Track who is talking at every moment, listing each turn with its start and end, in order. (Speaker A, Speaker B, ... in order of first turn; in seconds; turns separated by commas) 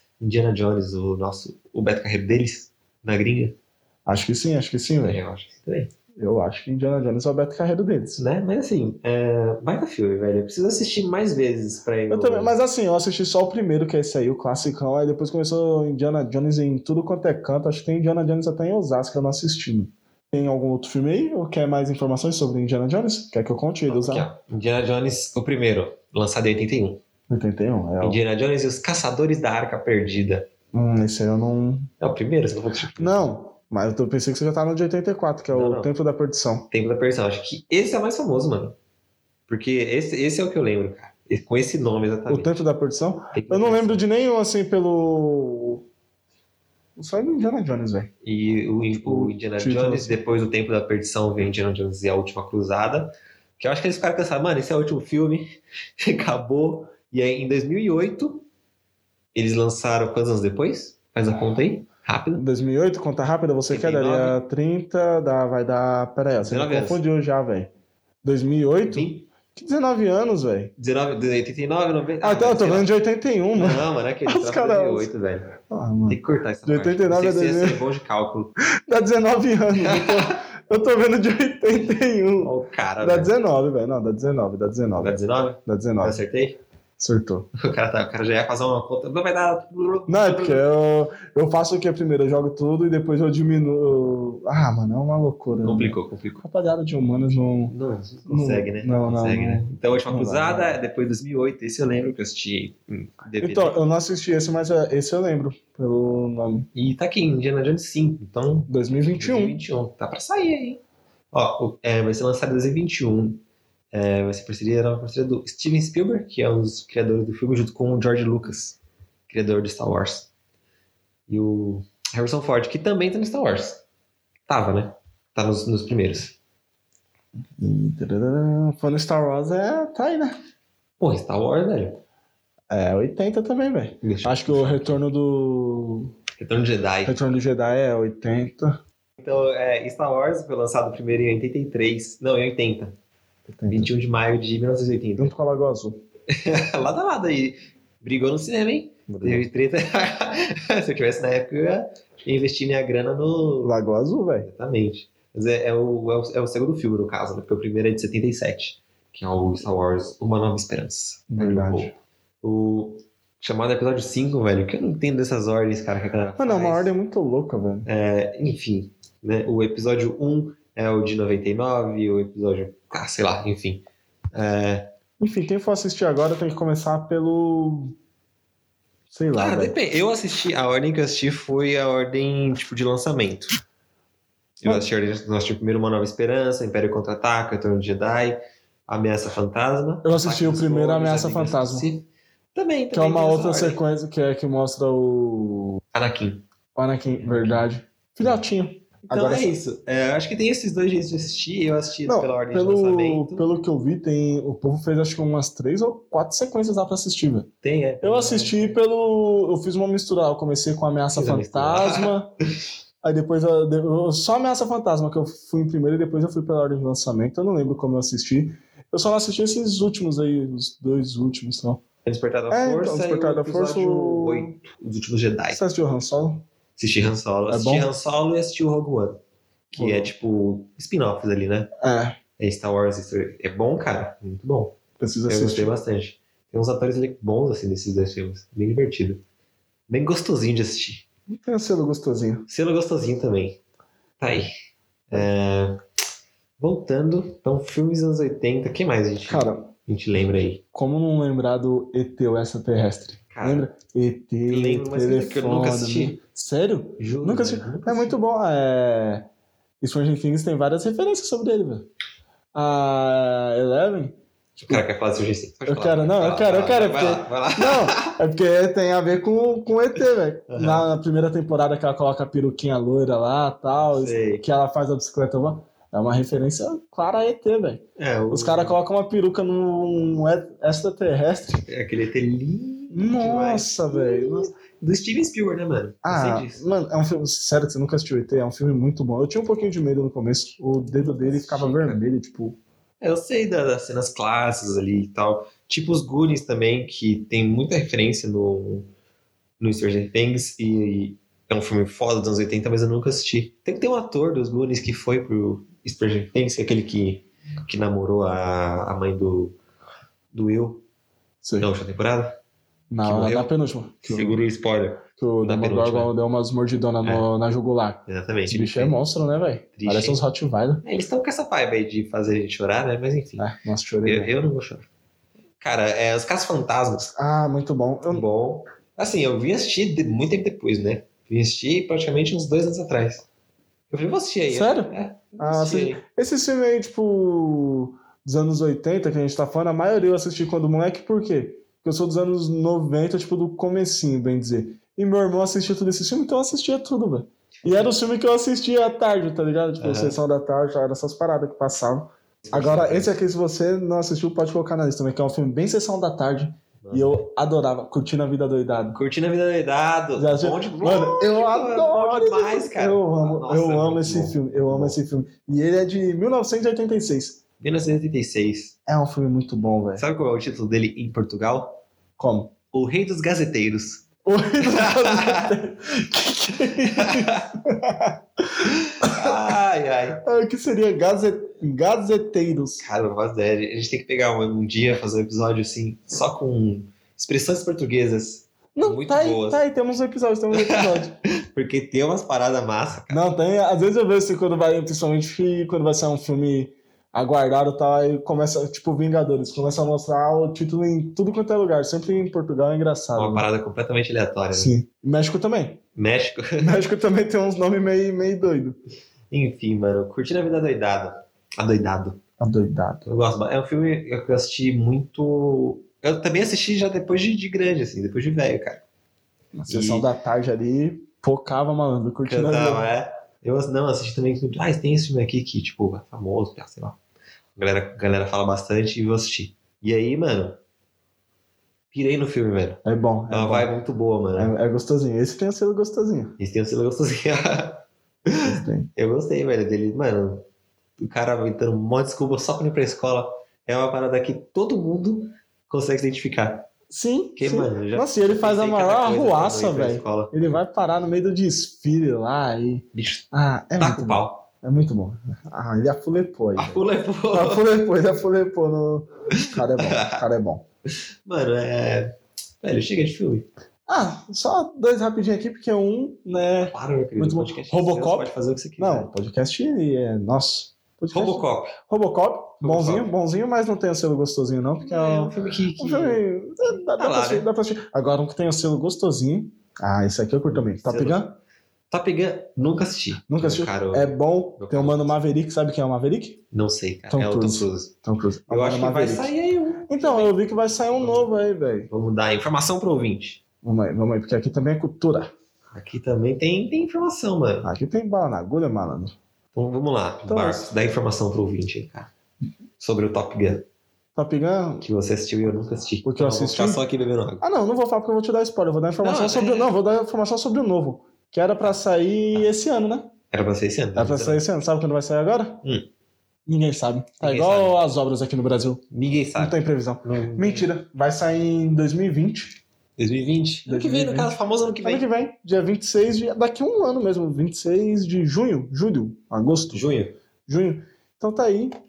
Speaker A: 0.2-3.6, Speaker B: 4.1-5.2, Speaker A: 5.0-5.9, Speaker B: 6.2-8.2, Speaker A: 8.2-12.6, Speaker B: 12.1-24.3, Speaker A: 23.9-27.0, Speaker B: 27.3-28.2, Speaker A: 28.0-30.5, Speaker B: 30.7-31.9, Speaker A: 32.0-33.3, Speaker B: 33.0-36.7, Speaker A: 35.5-35.9, Speaker A: 36.7-38.8, Speaker A: 39.5-42.5, Speaker B: 42.3-45.8, Speaker A: 43.3-44.0, Speaker B: 47.0-48.1, Speaker A: 48.2-58.5, Speaker B: 49.0-50.2, Speaker A: 59.4-62.4, Speaker B: 62.4-67.7, Speaker A: 63.7-64.4, Speaker A: 66.4-67.0, Speaker B: 68.2-70.7, Speaker A: 68.9-69.2, Speaker A: 70.8-72.9, Speaker B: 72.2-75.1, Speaker A: 73.5-78.5, Speaker B: 75.7-77.8, Speaker B: 78.9-85.2, Speaker A: 79.8-80.4, Speaker A: 82.4-83.3, Speaker A: 85.0-86.6, Speaker B: 85.7-86.2, Speaker B: 87.0-87.5, Speaker A: 87.5-90.7, Speaker B: 90.1-97.7, Speaker A: 95.6-96.4, Speaker A: 97.7-103.8, Speaker B: 98.3-100.8, Speaker B: 103.4-106.7, Speaker A: 106.7-110.8, Speaker B: 108.7-109.6, Speaker A: 111.3-113.4, Speaker A: 113.9-118.8, Speaker A: 119.3-120.3, Speaker A: 121.3-123.8, Speaker A: 124.5-126.3, Speaker B: 127.6-130.4, Speaker A: 131.0-132.0, Speaker B: 132.7-136.1, Speaker A: 134.0-135.0, Speaker A: 136.4-137.2, Speaker B: 137.1-138.8, Speaker A: 139.2-142.9, Speaker B: 143.5-143.9, Speaker A: 143.7-145.3, Speaker B: 145.2-146.0, Speaker A: 146.3-153.8, Speaker B: 149.1-149.5, Speaker B: 153.6-154.5, Speaker A: 154.4-166.9, Speaker B: 161.3-161.9, Speaker B: 166.4-167.9, Speaker A: 167.8-174.9, Speaker B: 175.2-177.9, Speaker B: 179.1-179.8, Speaker A: 179.3-183.6, Speaker A: 184.6-193.8, Speaker B: 190.0-191.9, Speaker B: 192.9-195.8, Speaker A: 195.9-196.4, Speaker B: 196.8-199.5, Speaker A: 197.2-197.7, Speaker A: 199.1-203.5, Speaker B: 202.1-207.5, Speaker A: 207.6-208.8, Speaker B: 208.0-212.3, Speaker A: 211.2-212.2, Speaker B: 213.0-221.8, Speaker A: 222.0-225.6, Speaker B: 222.5-224.6, Speaker B: 225.5-226.4, Speaker A: 226.8-229.2, Speaker B: 227.5-227.9, Speaker B: 229.7-230.1, Speaker A: 229.7-231.7, Speaker B: 231.8-232.2, Speaker A: 232.4-234.8, Speaker B: 235.0-235.7, Speaker A: 235.3-239.2, Speaker A: 239.9-241.1, Speaker B: 241.3-242.5, Speaker A: 242.5-243.6, Speaker A: 244.2-244.5, Speaker A: 245.1-245.8, Speaker A: 246.6-250.6, Speaker B: 249.3-249.7, Speaker B: 250.7-259.3, Speaker A: 253.3-253.7, Speaker A: 254.5-256.2, Speaker A: 257.0-258.2, Speaker B: 259.8-261.9, Speaker B: 262.5-264.8, Speaker A: 264.6-268.2, Speaker B: 265.7-281.7, Speaker A: 270.5-270.9, Speaker A: 273.8-274.4, Speaker A: 278.0-278.8, Speaker A: 281.7-286.7, Speaker B: 282.9-284.5, Speaker B: 286.0-292.6, Speaker A: 290.8-292.0, Speaker A: 293.0-298.9, Speaker A: 299.6-309.6, Speaker A: 310.3-310.8, Speaker B: 311.4-311.7, Speaker A: 311.6-312.4, Speaker B: 312.9-314.4, Speaker A: 313.0-313.5, Speaker A: 314.0-316.1, Speaker B: 315.2-320.8, Speaker A: 318.1-319.0, Speaker A: 319.8-320.2, Speaker A: 320.8-323.5, Speaker B: 323.4-324.3, Speaker A: 324.0-324.9, Speaker A: 325.6-327.1, Speaker B: 327.2-328.3, Speaker A: 328.1-333.3, Speaker A: 333.9-336.0, Speaker B: 334.5-359.0, Speaker A: 347.6-347.9, Speaker A: 349.8-350.2, Speaker A: 352.4-353.2, Speaker A: 356.8-357.1, Speaker A: 358.9-365.0, Speaker B: 360.2-367.4, Speaker A: 367.6-368.8, Speaker B: 368.9-370.0, Speaker A: 370.0-371.8, Speaker B: 372.2-372.5, Speaker A: 372.7-374.1, Speaker B: 374.2-379.4, Speaker A: 374.6-375.5, Speaker A: 376.9-377.5, Speaker A: 378.6-380.2, Speaker B: 380.2-382.8, Speaker A: 382.8-389.6, Speaker B: 388.8-391.1, Speaker A: 390.5-393.2, Speaker B: 393.1-403.5, Speaker A: 403.2-404.7, Speaker B: 404.5-405.8, Speaker A: 405.9-406.8, Speaker B: 406.6-408.8, Speaker A: 409.3-412.2, Speaker B: 412.4-413.0, Speaker A: 413.1-418.8, Speaker B: 419.6-422.9, Speaker A: 419.7-420.1, Speaker A: 422.2-427.0, Speaker A: 427.6-430.6, Speaker A: 431.9-434.5, Speaker B: 432.9-433.7, Speaker B: 434.4-436.4, Speaker A: 436.4-440.4, Speaker B: 438.4-438.9, Speaker A: 441.0-446.7, Speaker B: 446.9-460.6, Speaker A: 447.4-450.4, Speaker A: 452.9-453.3, Speaker A: 453.8-454.5, Speaker A: 456.6-457.6, Speaker A: 459.4-460.2, Speaker A: 461.2-463.5, Speaker B: 463.9-481.4, Speaker A: 466.7-469.1, Speaker A: 471.1-471.8, Speaker A: 472.6-473.1, Speaker A: 474.8-477.5, Speaker A: 480.5-481.2, Speaker A: 481.9-485.2, Speaker B: 483.3-486.4, Speaker A: 486.5-487.9, Speaker B: 487.1-489.3, Speaker A: 488.5-490.4, Speaker B: 489.9-491.9, Speaker A: 491.0-491.3, Speaker A: 491.9-493.4, Speaker B: 493.6-495.3, Speaker A: 495.7-497.7, Speaker B: 497.6-499.2, Speaker A: 499.5-502.1, Speaker B: 500.3-500.7, Speaker A: 502.8-503.6, Speaker B: 504.2-504.9, Speaker A: 504.8-507.4, Speaker B: 506.0-506.8, Speaker B: 507.4-513.1, Speaker A: 509.0-509.7, Speaker A: 513.3-514.4, Speaker B: 514.0-515.6, Speaker B: 516.5-518.8, Speaker A: 517.2-517.8, Speaker A: 518.9-520.7, Speaker B: 519.4-522.6, Speaker A: 523.0-525.1, Speaker B: 523.7-529.9, Speaker A: 529.7-530.2, Speaker B: 530.5-531.7